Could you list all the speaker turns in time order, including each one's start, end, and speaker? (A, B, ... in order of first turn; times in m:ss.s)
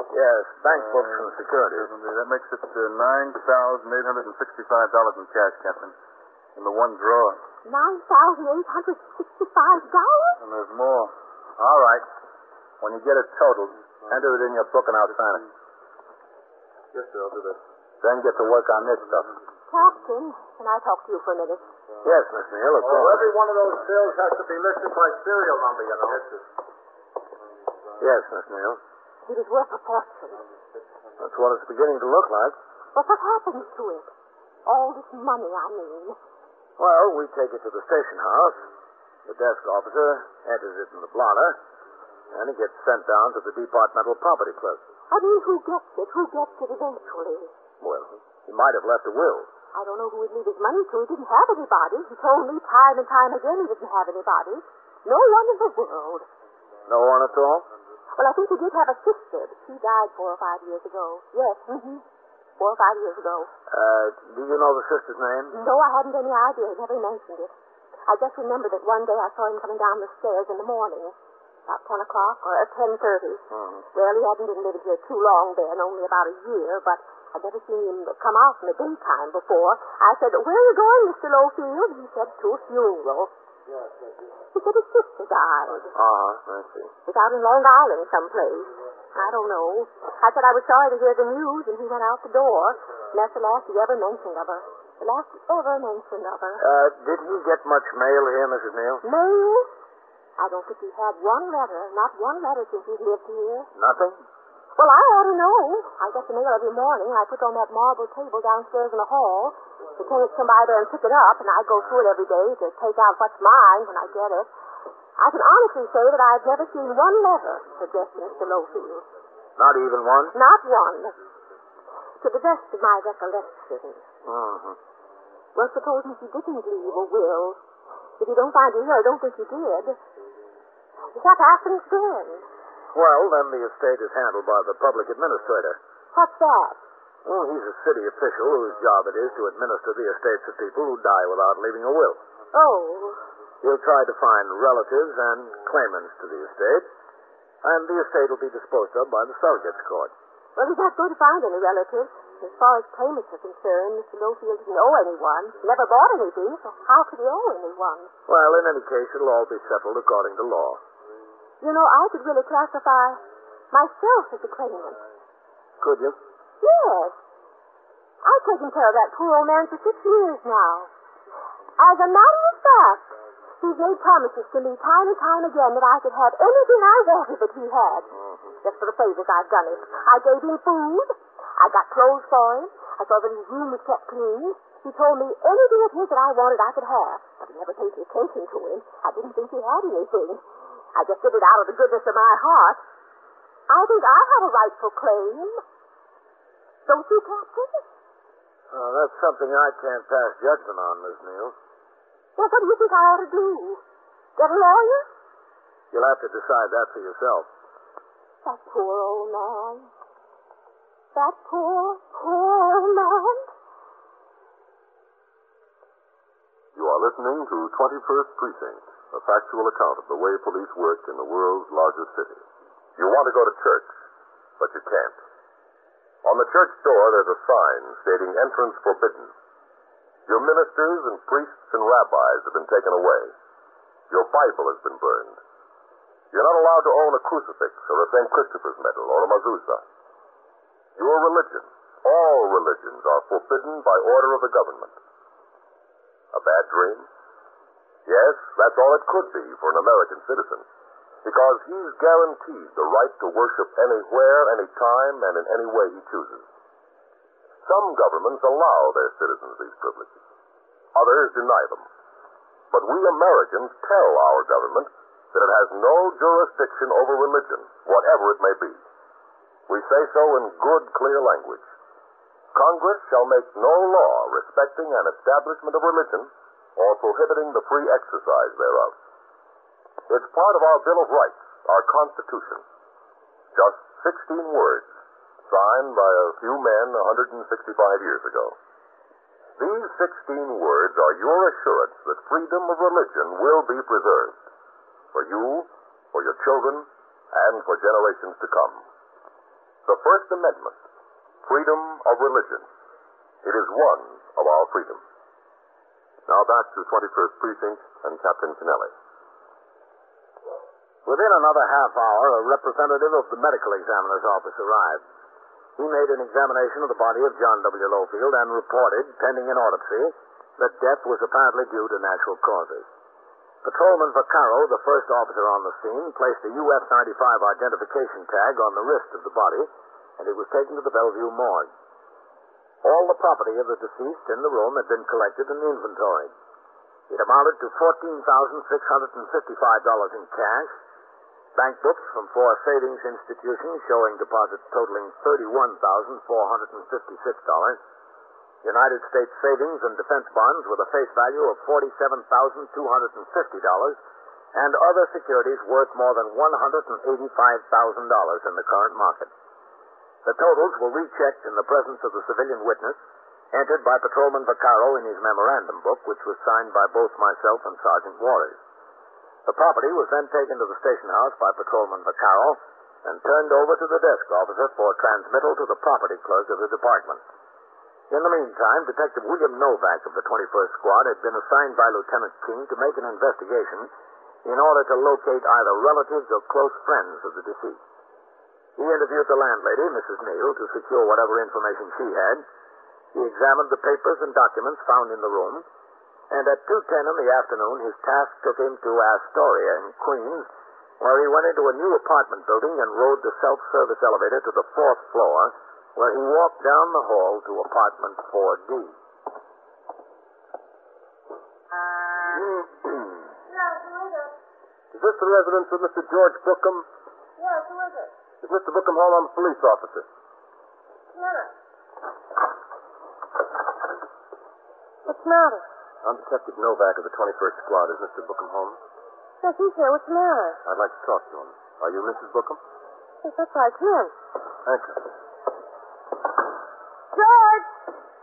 0:00.1-0:01.9 A
0:00.7-0:06.0 B
0:06.6-0:07.4 B
0:07.6-0:10.4 C
0:10.4-0:11.1 B
0:19.7-0:21.6 C
0:22.0-0:23.3 A
0:28.0-0:28.8 A
0:29.3-0:30.4 C
0:31.2-0:32.6 A
0:32.9-0:34.1 C
0:34.7-0:36.2 C
0:36.8-0:38.6 A
0:39.3-0:41.6 A
0:42.3-0:44.8 A
0:45.1-0:47.5 C
0:47.8-0:49.5 A
0:49.7-0:56.3 C
0:56.9-0:57.7 A
0:58.2-1:02.0 C
1:02.6-1:03.5 C
1:03.7-1:05.5 A
1:05.5-1:07.5 C
1:08.1-1:11.2 C
1:11.7-1:23.3 C
1:13.5-1:13.8 A
1:24.5-1:25.9 C
1:25.9-1:26.9 A
1:27.1-1:36.6 C
1:36.6-1:39.0 A
1:39.0-1:39.7 C
1:40.4-1:43.7 C
1:43.8-1:44.2 A
1:44.8-1:54.5 C
1:55.2-1:59.0 C
1:59.6-2:00.4 A
2:00.3-2:01.2 C
2:02.2-2:04.0 C
2:04.2-2:04.8 A
2:05.6-2:07.6 C
2:08.2-2:10.0 C
2:11.1-2:12.5 C
2:12.9-2:15.8 A
2:16.1-2:16.8 C
2:17.2-2:22.2 A
2:22.5-2:23.2 C
2:23.6-2:26.9 A
2:27.6-2:30.1 A
2:30.6-2:38.1 C
2:38.3-2:40.8 A
2:41.6-2:45.0 C
2:45.8-2:46.2 A
2:46.6-2:47.2 C
2:48.2-2:50.9 C
2:51.8-2:58.1 C
2:58.6-3:10.4 C
3:11.0-3:12.8 C
3:13.7-3:15.6 C
3:16.9-3:17.9 C
3:18.7-3:21.6 A
3:22.4-3:23.8 C
3:24.4-3:25.1 C
3:25.9-3:27.5 A
3:28.4-3:29.9 C
3:31.1-3:33.5 C
3:36.8-3:42.4 D
3:43.0-3:43.9 D
3:44.6-3:45.2 D
3:46.2-3:49.3 D
3:50.3-3:53.3 D
3:54.1-3:55.4 D
3:56.3-3:59.8 D
4:01.0-4:05.0 D
4:06.3-4:07.1 D
4:08.1-4:10.7 D
4:11.2-4:16.5 D
4:17.6-4:20.1 D
4:20.9-4:21.9 D
4:22.7-4:28.8 D
4:29.7-4:31.7 D
4:32.5-4:39.0 D
4:40.1-4:42.6 D
4:43.5-4:44.9 D
4:45.5-4:48.6 D
4:49.6-4:54.4 D
4:55.1-4:58.8 D
4:59.8-5:00.8 D
5:01.4-5:02.7 D
5:03.4-5:05.0 D
5:06.3-5:08.9 D
5:11.1-5:15.0 A
5:15.8-5:22.9 A
5:23.6-5:31.7 A
5:32.8-5:36.3 A
5:37.1-5:40.8 A
5:41.6-5:47.8 A
5:48.6-5:54.0 A
5:54.5-5:59.3 A
6:00.2-6:03.0 A
6:03.5-6:08.6 A
6:09.5-6:17.2 A
6:18.1-6:23.9 A
6:24.4-6:27.8 A
6:28.8-6:32.5 A
6:33.1-6:35.7 A
6:36.3-6:40.5 A
6:41.0-6:49.0 A
6:53.5-6:54.3 E
6:54.9-6:56.9 F
6:57.4-6:58.1 E
6:58.4-7:00.1 F
7:01.2-7:01.5 E
7:05.1-7:05.6 E
7:06.0-7:08.8 F
7:09.4-7:10.6 E
7:10.6-7:12.6 F
7:13.2-7:14.1 E
7:14.6-7:15.0 F
7:17.1-7:17.7 E